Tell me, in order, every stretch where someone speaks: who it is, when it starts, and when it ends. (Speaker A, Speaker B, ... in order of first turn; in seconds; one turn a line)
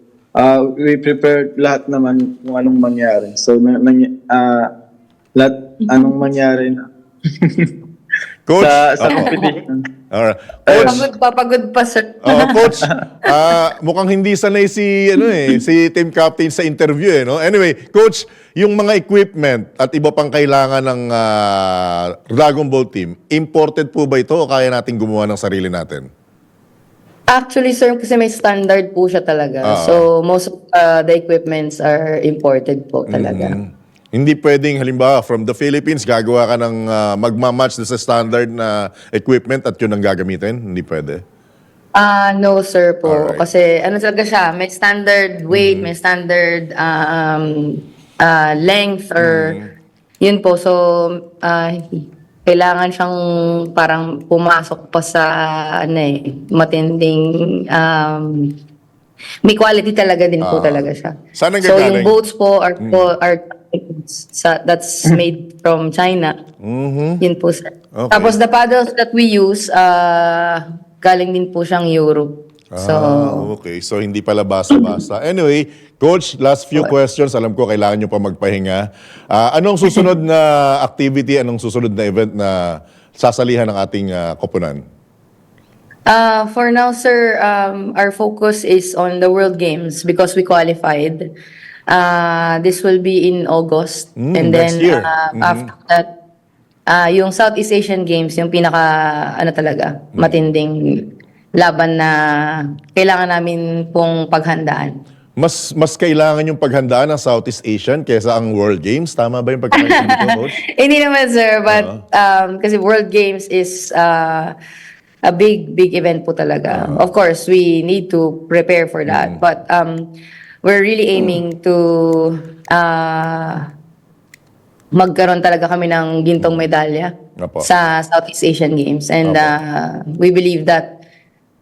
Speaker A: 0.3-4.7
Speaker A: 5.3-7.7
Speaker B: 5.9-6.2
Speaker C: 8.5-9.3
Speaker A: 8.6-9.8
Speaker B: 9.1-9.6
Speaker C: 10.1-11.1
Speaker A: 10.7-11.1
Speaker B: 10.8-13.3
Speaker C: 12.2-26.1
Speaker B: 27.3-33.5
Speaker C: 29.6-30.0
Speaker C: 33.1-41.2
Speaker B: 41.9-49.6
Speaker C: 43.0-43.4
Speaker C: 45.5-45.9
Speaker C: 49.2-49.7
Speaker B: 50.2-53.2
Speaker B: 53.7-58.5
Speaker B: 59.4-66.3
Speaker C: 60.4-62.1
Speaker C: 62.8-63.1
Speaker C: 66.6-67.2
Speaker B: 67.2-73.5
Speaker C: 67.9-68.3
Speaker C: 72.7-84.8
Speaker B: 86.0-91.3
Speaker B: 91.9-96.1
Speaker C: 94.2-95.7
Speaker B: 96.9-100.8
Speaker C: 100.1-100.4
Speaker B: 101.5-105.0
Speaker C: 105.4-110.6
Speaker B: 109.8-114.5
Speaker C: 111.7-112.0
Speaker B: 115.2-120.1
Speaker C: 116.7-117.0
Speaker C: 119.1-119.4
Speaker B: 120.6-123.7
Speaker B: 124.9-130.9
Speaker C: 127.4-127.7
Speaker C: 129.2-129.5